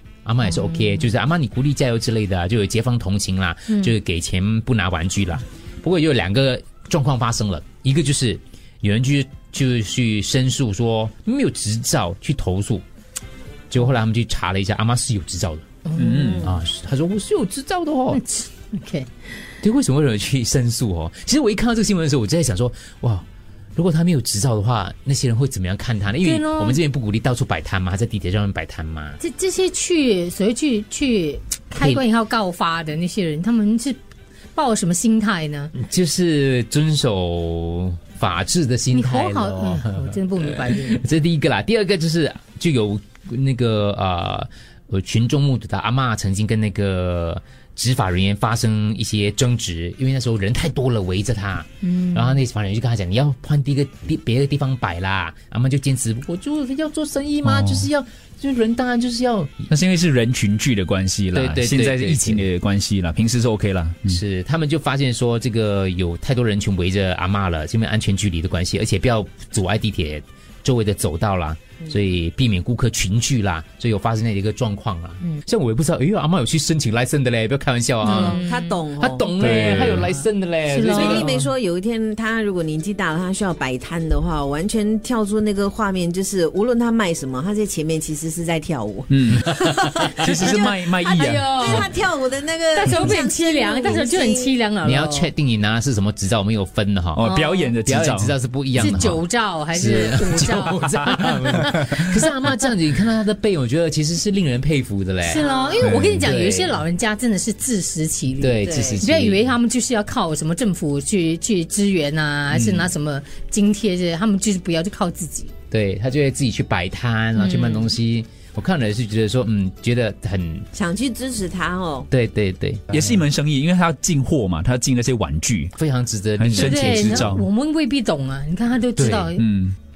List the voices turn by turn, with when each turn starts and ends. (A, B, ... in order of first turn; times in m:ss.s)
0:00.2-0:12.8 A
0:00.5-0:00.9 B
0:13.7-0:15.8 A
0:15.9-0:16.3 B
0:16.0-0:16.5 C
0:16.4-0:18.2 A
0:18.1-0:19.1 B
0:19.6-0:23.2 A
0:23.8-0:29.2 A
0:26.2-0:26.8 B
0:29.2-0:34.0 B
0:34.5-0:35.7 B
0:35.7-0:59.7 A
0:38.9-0:41.0 B
0:51.8-0:52.4 B
0:57.4-0:57.9 C
0:59.7-1:04.2 C
1:01.3-1:02.5 A
1:04.1-1:18.4 A
1:18.0-1:18.8 B
1:18.0-1:19.3 D
1:19.0-1:21.5 A
1:19.4-1:20.1 C
1:20.7-1:21.3 B
1:20.8-1:34.6 D
1:29.1-1:31.9 C
1:30.4-1:31.9 B
1:32.7-1:35.3 B
1:34.8-1:37.2 A
1:37.1-1:38.3 C
1:37.2-1:37.8 B
1:37.8-1:45.5 A
1:38.8-1:42.0 B
1:45.2-1:55.5 B
1:45.3-1:45.9 D
1:45.8-1:46.2 C
1:46.0-1:46.8 A
1:48.4-1:49.5 A
1:48.6-1:49.0 D
1:55.7-2:00.7 A
1:57.4-1:58.0 B
2:00.7-2:02.1 D
2:02.1-2:03.1 A
2:02.9-2:05.7 C
2:05.8-2:07.4 A
2:06.4-2:07.5 C
2:06.6-2:09.5 B
2:09.0-2:09.3 A
2:09.4-2:09.8 C